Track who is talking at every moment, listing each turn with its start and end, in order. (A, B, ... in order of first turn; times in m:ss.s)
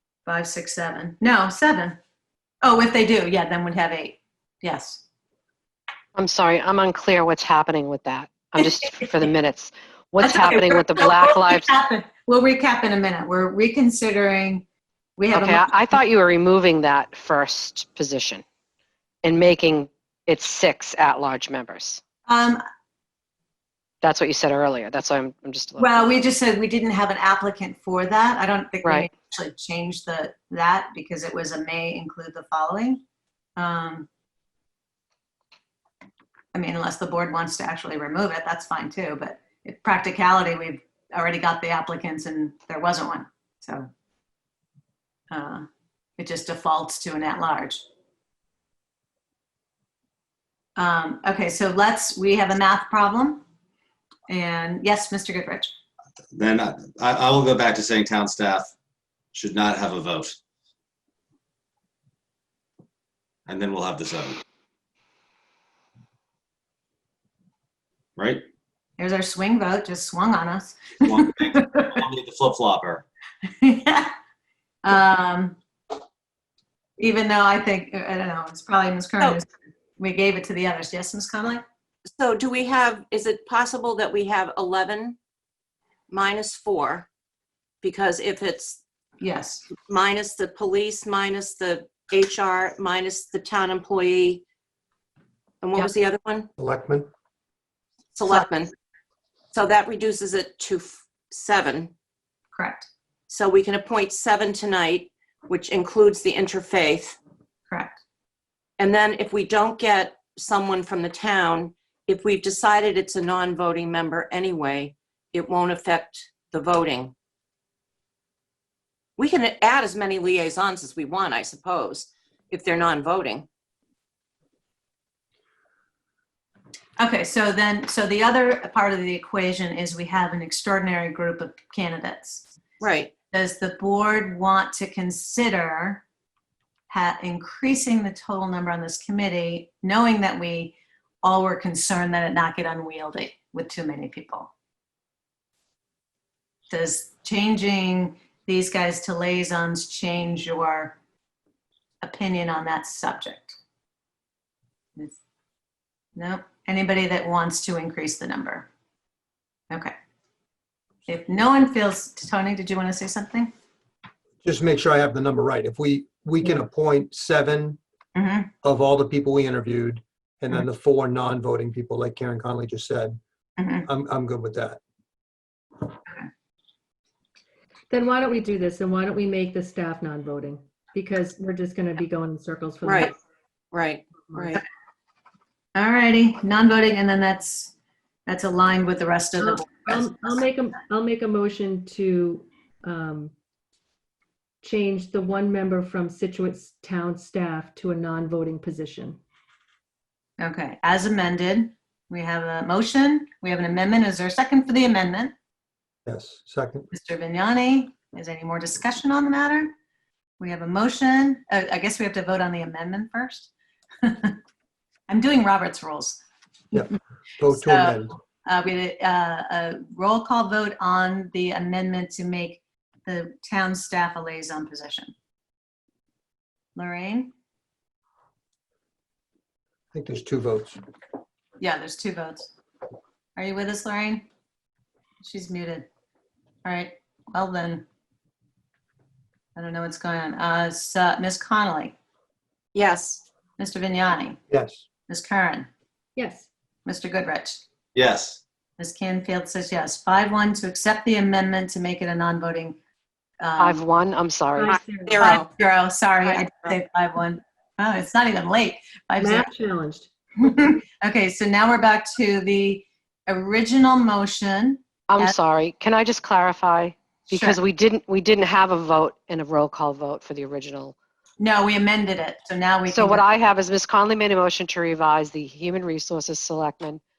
0:00.2-0:02.0 A
0:02.6-0:05.0 A
0:06.2-0:11.7 B
0:10.2-0:14.6 A
0:15.2-0:15.8 A
0:15.3-0:18.4 B
0:19.2-0:22.0 B
0:22.2-0:22.6 A
0:24.0-0:26.0 B
0:25.8-0:33.0 A
0:28.8-0:29.1 B
0:33.6-0:34.1 A
0:36.5-0:43.9 A
0:45.3-0:45.6 A
0:46.2-0:47.8 A
0:50.8-0:53.4 A
0:54.3-0:55.7 A
0:56.3-0:58.7 C
0:59.3-1:00.4 C
1:03.5-1:04.4 C
1:08.2-1:08.4 C
1:09.0-1:11.9 A
1:11.1-1:13.0 C
1:13.6-1:14.1 A
1:14.8-1:15.6 A
1:17.0-1:21.6 A
1:22.1-1:25.2 D
1:26.1-1:27.1 D
1:27.8-1:28.8 D
1:29.2-1:29.7 A
1:29.8-1:34.4 D
1:35.6-1:36.5 D
1:36.6-1:37.1 E
1:38.1-1:38.7 D
1:39.5-1:41.9 D
1:42.5-1:42.9 A
1:43.3-1:47.2 D
1:47.7-1:48.0 A
1:48.8-1:57.1 D
1:59.2-2:03.4 D
2:07.0-2:12.5 A
2:12.8-2:13.1 D
2:13.2-2:16.0 A
2:16.9-2:24.5 A
2:26.7-2:31.0 A
2:32.0-2:33.6 A
2:36.2-2:38.7 A
2:41.0-2:43.5 A
2:44.4-2:47.8 E
2:48.2-2:48.5 A
2:48.6-2:53.2 E
2:53.6-2:53.8 A
2:53.8-2:54.8 E
2:57.9-3:03.2 F
3:02.8-3:03.1 D
3:03.7-3:04.6 D
3:04.3-3:04.5 F
3:05.8-3:07.7 A
3:08.3-3:10.1 A
3:09.4-3:13.3 F
3:14.6-3:19.2 F
3:20.4-3:25.3 A
3:26.0-3:26.9 E
3:26.9-3:29.7 A
3:30.4-3:33.5 A
3:34.0-3:34.4 A
3:35.1-3:36.2 A
3:36.7-3:38.2 E
3:37.5-3:45.1 A
3:46.8-3:47.3 A
3:49.9-3:50.8 E
3:51.6-3:52.5 A
3:53.4-3:54.2 A
3:55.2-3:55.9 A
3:56.6-3:57.8 A
3:59.6-4:02.0 A
4:02.7-4:03.2 D
4:03.6-4:04.4 A
4:04.5-4:04.8 E
4:05.1-4:05.7 A
4:06.2-4:06.5 F
4:06.8-4:07.6 A
4:07.9-4:08.4 C
4:08.8-4:12.8 A
4:13.4-4:13.8 A
4:13.6-4:14.8 B
4:14.5-4:15.4 F
4:14.6-4:15.5 D
4:15.2-4:19.5 A
4:16.2-4:16.7 D
4:19.2-4:20.1 F
4:20.4-4:25.3 A
4:25.1-4:31.0 B
4:27.3-4:27.6 A
4:31.4-4:33.2 A
4:32.8-4:37.0 B